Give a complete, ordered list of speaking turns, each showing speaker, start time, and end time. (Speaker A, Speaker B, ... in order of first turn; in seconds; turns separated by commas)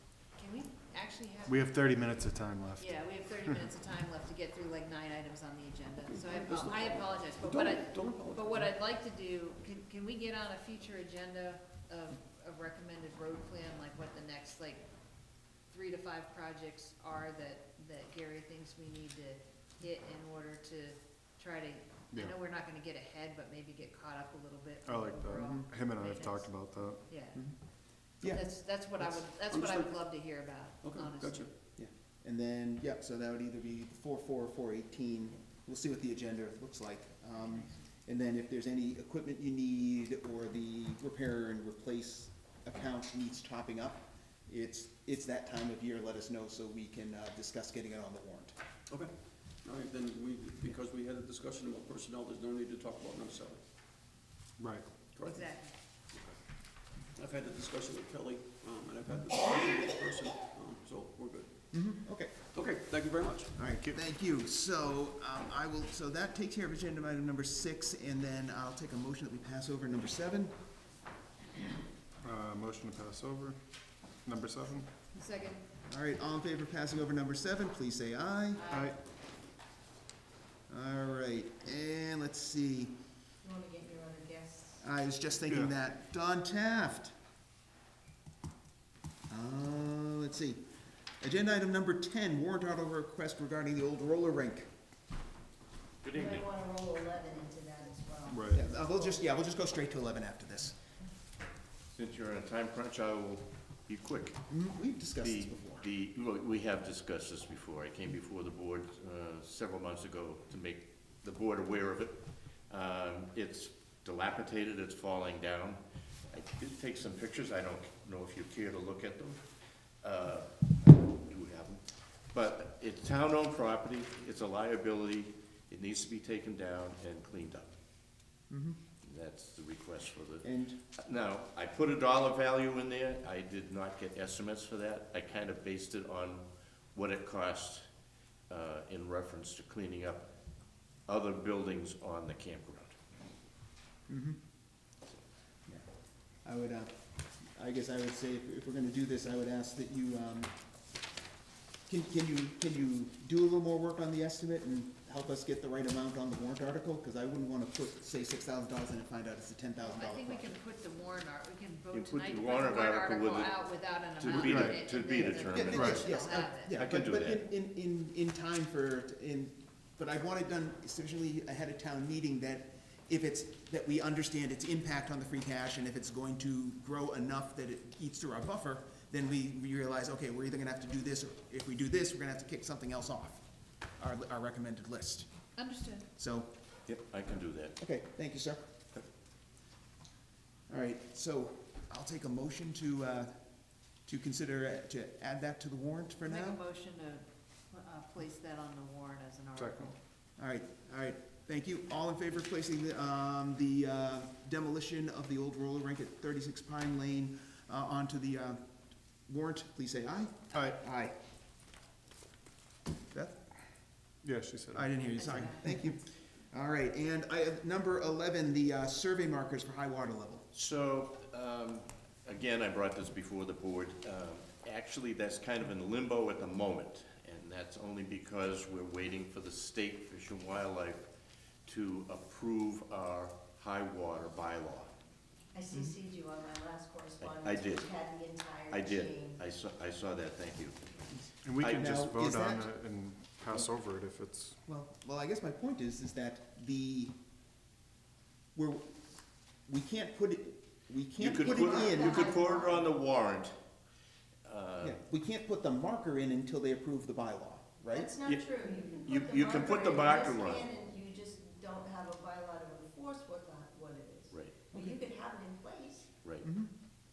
Speaker A: 0.3-1.7, Speaker B: 1.4-3.7, Speaker A: 2.8-14.8, Speaker C: 6.0-8.8, Speaker A: 15.7-27.4, Speaker B: 24.8-27.0, Speaker D: 25.4-25.7, Speaker D: 28.2-28.4, Speaker A: 28.2-31.5, Speaker C: 29.5-30.1, Speaker C: 30.8-31.5, Speaker D: 31.8-48.5, Speaker C: 49.6-53.6, Speaker B: 54.6-54.8, Speaker C: 55.1-55.5, Speaker A: 55.2-55.7, Speaker C: 56.1-56.4, Speaker C: 57.1-61.5, Speaker D: 61.7-62.3, Speaker C: 62.5-63.5, Speaker D: 63.5-70.5, Speaker B: 72.2-73.6, Speaker B: 74.2-74.9, Speaker A: 75.1-75.6, Speaker D: 75.8-78.6, Speaker A: 78.5-78.9, Speaker B: 78.7-79.0, Speaker D: 80.7-82.9, Speaker E: 83.4-84.8, Speaker D: 84.8-87.1, Speaker D: 89.3-90.6, Speaker D: 91.2-94.7, Speaker F: 96.0-96.5, Speaker E: 96.1-98.6, Speaker B: 98.3-98.6, Speaker D: 98.5-100.8, Speaker F: 101.9-104.4, Speaker D: 104.5-105.8, Speaker F: 105.2-112.2, Speaker F: 112.7-115.8, Speaker F: 116.3-119.4, Speaker F: 120.0-121.8, Speaker F: 122.3-127.7, Speaker D: 128.5-128.8, Speaker F: 129.0-137.8, Speaker D: 130.4-130.8, Speaker F: 138.5-140.3, Speaker F: 141.1-142.9, Speaker D: 144.1-144.4, Speaker D: 146.4-146.9, Speaker D: 147.5-150.5, Speaker D: 151.9-160.6, Speaker A: 159.8-166.8, Speaker F: 161.9-167.4, Speaker B: 164.4-164.8, Speaker D: 165.4-183.4, Speaker B: 165.7-166.0, Speaker D: 184.0-185.3, Speaker A: 185.6-186.1, Speaker D: 186.2-186.5, Speaker F: 186.9-187.8, Speaker D: 187.8-188.6, Speaker D: 190.7-193.3, Speaker D: 194.0-196.6, Speaker A: 196.2-199.9, Speaker B: 199.5-199.9, Speaker D: 200.4-208.7, Speaker D: 209.3-211.1, Speaker D: 213.1-213.4, Speaker B: 214.2-214.9, Speaker D: 214.7-220.4, Speaker A: 215.1-215.7, Speaker F: 220.5-231.0, Speaker F: 231.7-234.9, Speaker E: 235.5-239.4, Speaker F: 237.2-237.9, Speaker F: 238.7-240.8, Speaker B: 241.4-244.6, Speaker F: 241.6-242.0, Speaker D: 241.6-242.7, Speaker D: 244.7-247.1, Speaker D: 248.5-248.9, Speaker D: 249.7-252.4, Speaker F: 251.2-253.5, Speaker E: 251.4-252.8, Speaker F: 254.4-255.0, Speaker D: 254.8-258.1, Speaker E: 257.9-266.1, Speaker F: 258.2-260.7, Speaker F: 264.3-264.7, Speaker D: 266.4-266.7